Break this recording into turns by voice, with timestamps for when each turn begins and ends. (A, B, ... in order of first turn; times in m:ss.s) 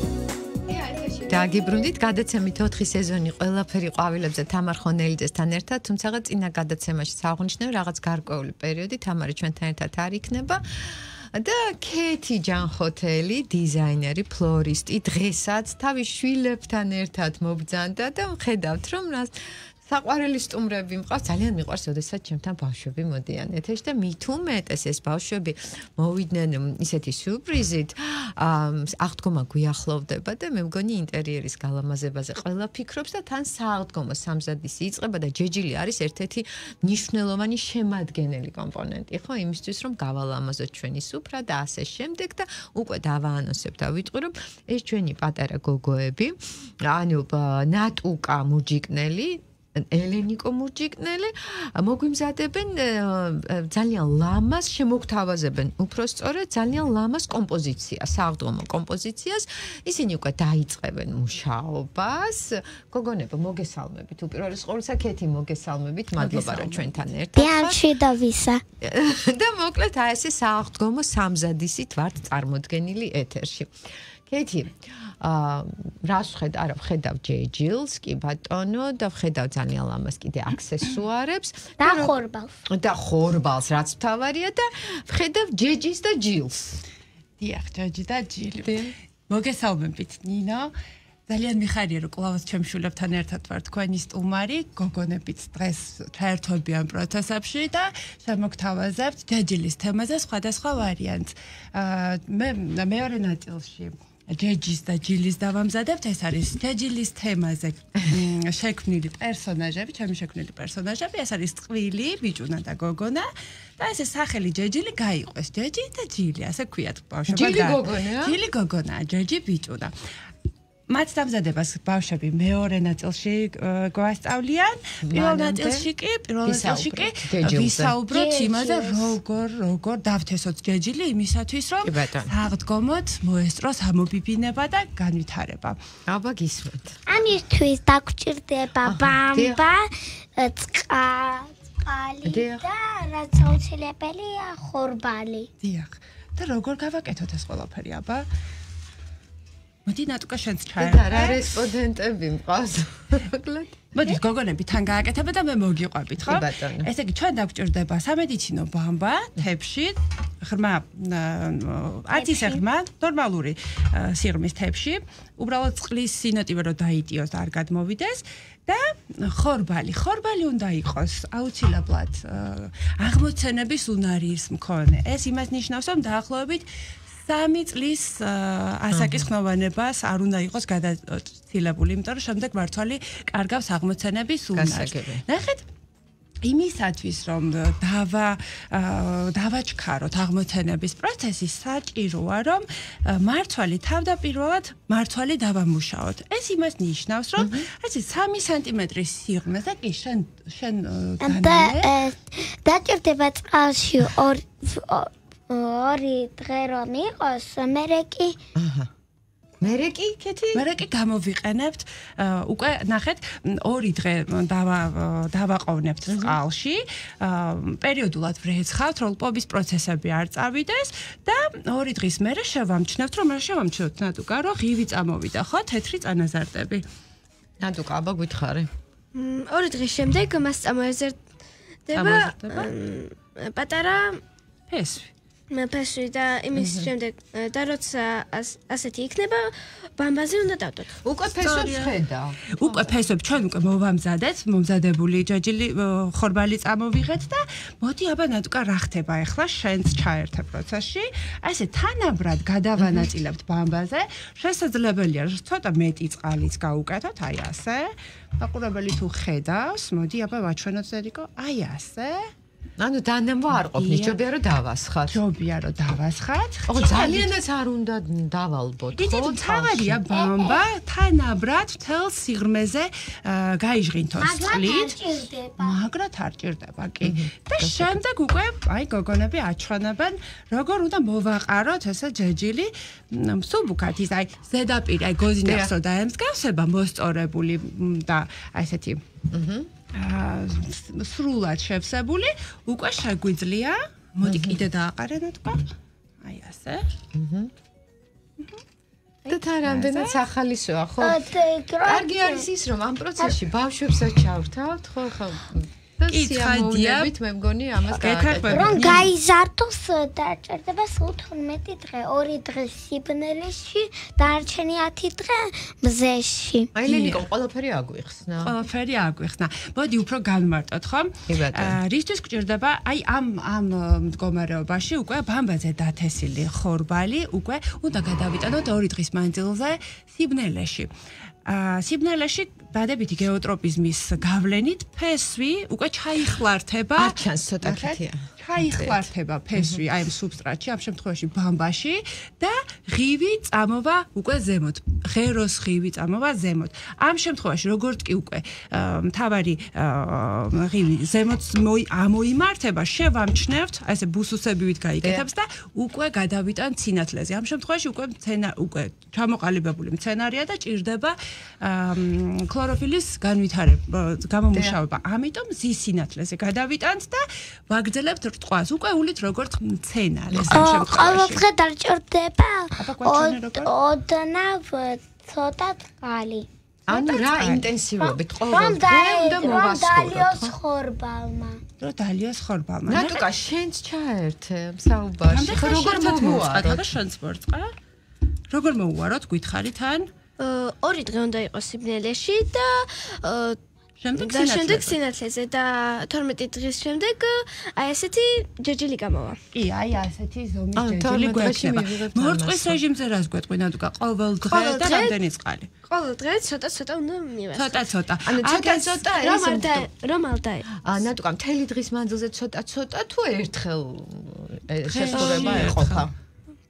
0:00.7-1:07.9 A
1:06.2-1:07.0 B
1:07.4-1:08.6 C
1:08.8-1:13.7 A
1:14.3-1:22.1 A
1:21.8-1:22.6 C
1:22.7-1:26.8 A
1:27.4-1:30.7 B
1:28.6-1:28.9 A
1:31.3-1:59.9 B
1:57.3-1:58.4 A
2:00.9-2:15.8 B
2:05.0-2:05.9 A
2:06.4-2:08.0 A
2:08.1-2:09.2 C
2:11.8-2:12.3 A
2:16.1-2:17.0 A
2:17.1-2:25.5 C
2:18.8-2:19.6 A
2:22.2-2:22.7 A
2:25.6-2:28.3 B
2:29.9-2:31.7 B
2:30.8-2:33.8 A
2:33.9-2:56.7 B
2:36.2-2:36.9 A
2:42.1-2:42.6 C
2:57.2-3:05.7 B
2:58.9-2:59.3 A
3:04.5-3:05.2 A
3:06.4-3:21.9 B
3:17.4-3:17.7 A
3:21.2-3:28.4 C
3:28.6-3:28.9 A
3:29.6-3:30.7 A
3:30.5-3:46.8 B
3:36.1-3:36.4 A
3:47.6-3:48.7 A
3:49.1-3:51.2 D
3:51.9-3:54.2 D
3:51.9-3:52.7 A
3:54.7-3:55.1 B
3:55.5-4:01.0 D
3:56.5-3:56.9 A
4:01.0-4:03.0 A
4:01.4-4:01.9 B
4:02.6-4:22.3 B
4:12.8-4:13.1 A
4:22.8-4:25.2 A
4:23.5-4:24.2 B
4:25.1-4:27.3 B
4:26.7-4:30.0 A
4:29.0-4:35.0 B
4:30.1-4:30.6 C
4:34.2-4:35.8 C
4:35.6-4:49.0 B
4:37.0-4:38.0 A
4:45.4-4:45.7 A
4:49.3-4:49.7 A
4:49.9-4:55.6 B
4:54.2-4:54.6 A
4:56.2-4:56.9 B
4:57.1-4:57.5 A
4:59.3-5:00.2 B
4:59.3-5:01.3 A
5:01.0-5:02.5 C
5:01.8-5:09.1 A
5:06.1-5:07.1 B
5:07.9-5:09.1 B
5:08.5-5:16.7 C
5:16.8-5:18.6 A
5:16.9-5:17.2 B
5:18.4-5:30.9 B
5:21.3-5:21.8 A
5:31.5-6:11.4 B
5:37.0-5:39.0 A
5:55.0-5:55.3 A
6:04.5-6:04.8 A
6:10.3-6:10.8 A
6:10.5-6:16.5 C
6:12.8-6:13.7 B
6:16.9-6:20.5 A
6:16.9-6:17.6 B
6:18.0-6:21.6 C
6:21.8-6:23.3 B
6:22.9-6:27.0 A
6:25.2-6:27.7 B
6:28.5-6:30.1 B
6:30.4-6:33.6 D
6:34.0-6:35.0 B
6:34.2-6:39.4 D
6:39.5-6:45.7 B
6:40.8-6:42.8 A
6:44.5-6:45.2 D
6:45.9-6:47.9 D
6:47.5-6:49.2 B
6:48.2-6:49.9 A
6:49.2-6:50.7 D
6:50.7-6:56.1 A
6:54.8-6:56.1 B